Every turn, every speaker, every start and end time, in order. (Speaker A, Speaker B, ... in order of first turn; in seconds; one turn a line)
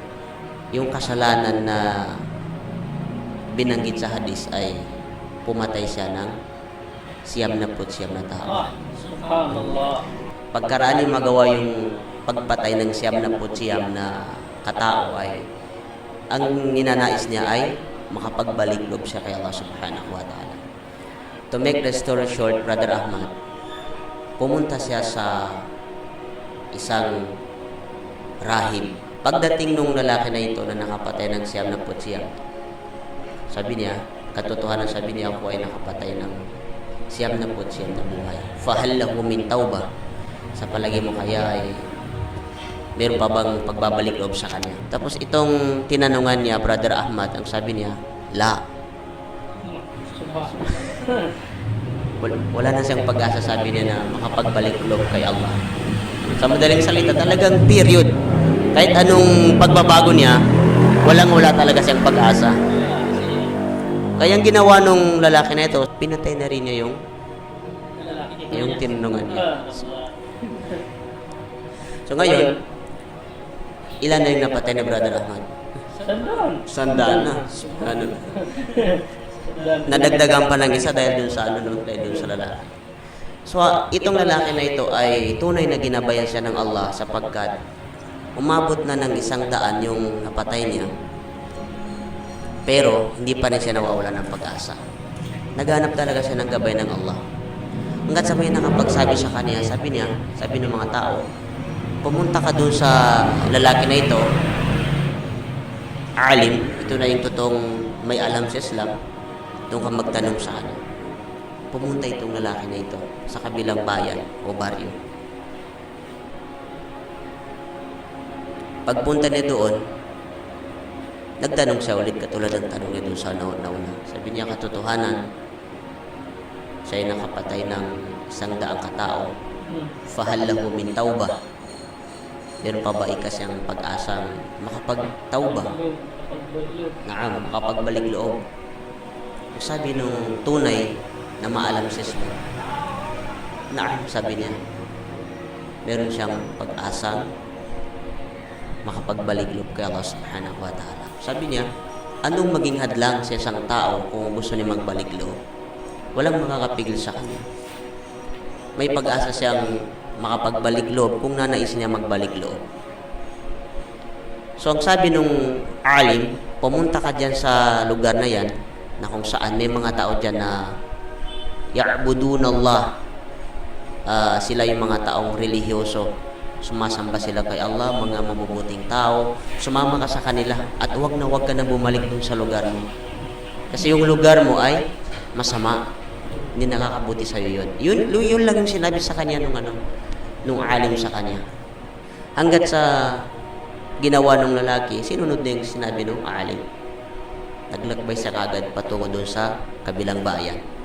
Speaker A: 0.7-1.9
Speaker A: 3.5-4.8
Speaker A: 5.5-6.3
Speaker A: 7.3-8.7
Speaker B: 8.5-10.1
Speaker A: 10.5-11.7
Speaker A: 12.2-14.1
Speaker A: 14.6-15.4
Speaker A: 16.3-20.6
Speaker A: 21.5-23.3
Speaker A: 24.4-25.6
Speaker A: 26.7-27.2
Speaker A: 28.4-32.4
Speaker A: 33.5-36.4
Speaker A: 37.1-39.9
Speaker A: 40.6-41.8
Speaker A: 43.0-48.6
Speaker B: 49.6-51.4
Speaker A: 52.2-55.6
Speaker A: 56.4-58.1
Speaker A: 58.7-60.4
Speaker A: 61.0-62.5
Speaker B: 62.7-63.5
Speaker A: 64.2-67.0
Speaker B: 68.0-70.8
Speaker A: 68.5-69.5
Speaker A: 72.1-72.6
Speaker A: 74.0-75.5
Speaker B: 76.0-77.3
Speaker A: 76.7-78.3
Speaker B: 78.3-80.3
Speaker A: 79.8-82.6
Speaker A: 83.5-87.5
Speaker A: 88.4-90.9
Speaker A: 92.7-94.8
Speaker A: 95.5-97.2
Speaker A: 98.1-101.2
Speaker A: 102.0-104.2
Speaker A: 106.2-108.9
Speaker A: 109.7-110.8
Speaker A: 111.7-115.0
Speaker A: 118.9-119.8
Speaker A: 121.4-125.2
Speaker A: 126.9-129.3
Speaker B: 129.7-130.0
Speaker A: 130.1-131.3
Speaker A: 132.6-135.7
Speaker B: 135.6-137.0
Speaker A: 137.1-138.4
Speaker A: 139.6-140.8
Speaker A: 141.4-142.4
Speaker A: 143.7-144.6
Speaker A: 145.8-147.3
Speaker A: 148.8-151.6
Speaker A: 152.2-155.3
Speaker A: 156.2-157.4
Speaker A: 158.8-159.7
Speaker A: 160.2-162.6
Speaker A: 164.6-165.3
Speaker A: 165.8-170.5
Speaker A: 171.7-172.9
Speaker A: 174.1-176.1
Speaker A: 176.6-182.8
Speaker A: 183.7-185.8
Speaker A: 186.5-189.8
Speaker A: 190.4-191.4
Speaker A: 192.4-193.2
Speaker A: 194.0-196.6
Speaker A: 197.7-200.6